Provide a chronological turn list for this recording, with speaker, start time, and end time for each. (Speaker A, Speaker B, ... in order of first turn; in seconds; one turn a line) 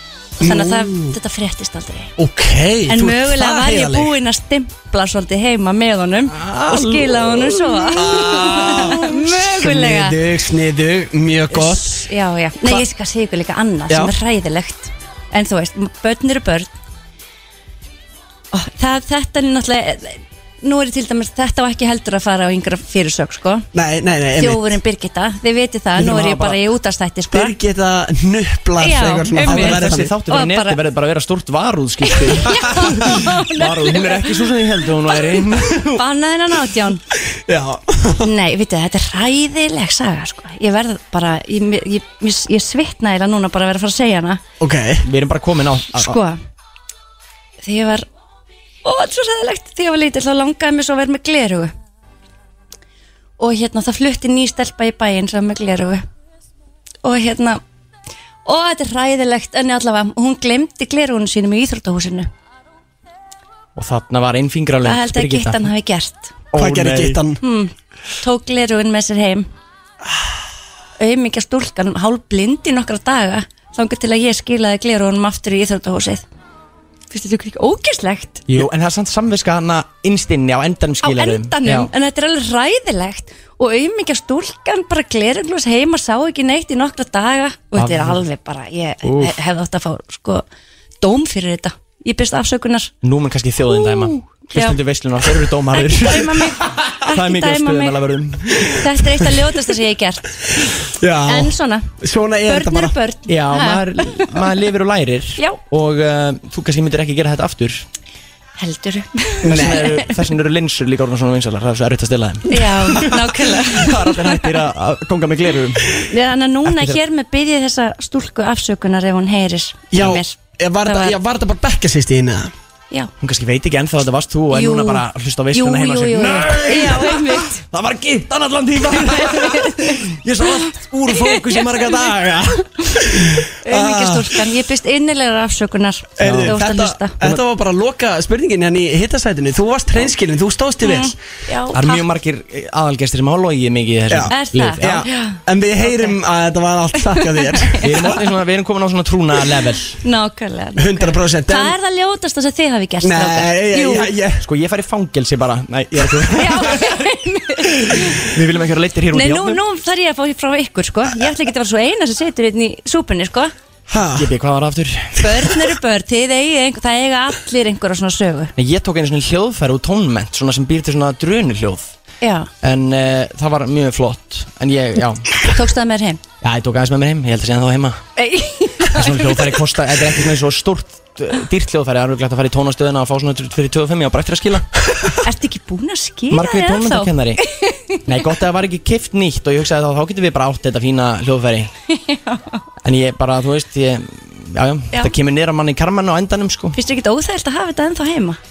Speaker A: 0.4-1.1
Speaker B: 0.4-2.1
Speaker A: 2.2-4.1
Speaker B: 2.9-10.2
Speaker C: 6.3-8.9
Speaker A: 7.9-12.0
Speaker B: 11.5-16.7
Speaker B: 18.5-23.7
Speaker A: 23.7-24.8
Speaker B: 24.4-27.5
Speaker C: 26.0-26.5
Speaker A: 26.1-26.5
Speaker A: 27.3-30.1
Speaker B: 28.8-30.8
Speaker C: 29.4-36.0
Speaker B: 32.0-34.5
Speaker B: 35.1-37.0
Speaker A: 37.3-38.3
Speaker B: 38.2-44.4
Speaker A: 44.6-45.0
Speaker C: 45.0-46.2
Speaker B: 45.9-46.4
Speaker B: 47.6-48.0
Speaker B: 48.8-51.7
Speaker B: 53.4-56.0
Speaker B: 57.0-57.6
Speaker B: 58.4-62.3
Speaker C: 63.7-65.7
Speaker B: 64.8-66.3
Speaker C: 66.5-67.2
Speaker A: 66.5-67.4
Speaker B: 67.4-69.5
Speaker B: 71.0-76.2
Speaker B: 77.1-78.5
Speaker C: 78.5-81.9
Speaker B: 81.0-90.4
Speaker C: 87.7-88.2
Speaker C: 89.0-89.4
Speaker B: 91.0-92.9
Speaker C: 93.0-98.8
Speaker B: 93.7-94.8
Speaker B: 95.7-98.0
Speaker B: 98.6-100.3
Speaker A: 100.8-102.9
Speaker B: 101.2-101.9
Speaker B: 102.5-104.4
Speaker C: 103.3-107.8
Speaker B: 108.6-110.1
Speaker A: 109.4-109.9
Speaker C: 109.4-116.1
Speaker B: 112.5-114.6
Speaker B: 116.1-121.2
Speaker C: 116.6-117.0
Speaker A: 119.9-122.5
Speaker C: 123.2-132.7
Speaker B: 124.5-127.6
Speaker B: 129.0-130.0
Speaker B: 131.1-131.6
Speaker B: 133.6-137.2
Speaker A: 133.7-134.4
Speaker C: 136.2-136.6
Speaker A: 136.2-141.2
Speaker B: 140.8-142.0
Speaker C: 141.7-145.1
Speaker A: 144.1-147.9
Speaker B: 144.3-146.1
Speaker B: 147.2-148.1
Speaker C: 147.8-150.0
Speaker B: 150.0-154.1
Speaker A: 150.8-151.7
Speaker A: 153.0-154.4
Speaker C: 154.4-157.0
Speaker B: 156.3-158.2
Speaker C: 157.8-159.6
Speaker B: 159.1-163.5
Speaker A: 163.9-164.3
Speaker C: 164.1-165.5
Speaker B: 165.2-168.5
Speaker C: 168.6-171.9
Speaker B: 172.2-172.5
Speaker C: 172.6-175.5
Speaker B: 175.5-176.2
Speaker C: 176.4-178.0
Speaker B: 178.2-179.6
Speaker C: 178.8-184.8
Speaker B: 185.2-188.2
Speaker C: 186.3-187.4
Speaker C: 188.0-191.7
Speaker B: 191.9-192.6
Speaker C: 192.8-196.8
Speaker B: 196.8-198.4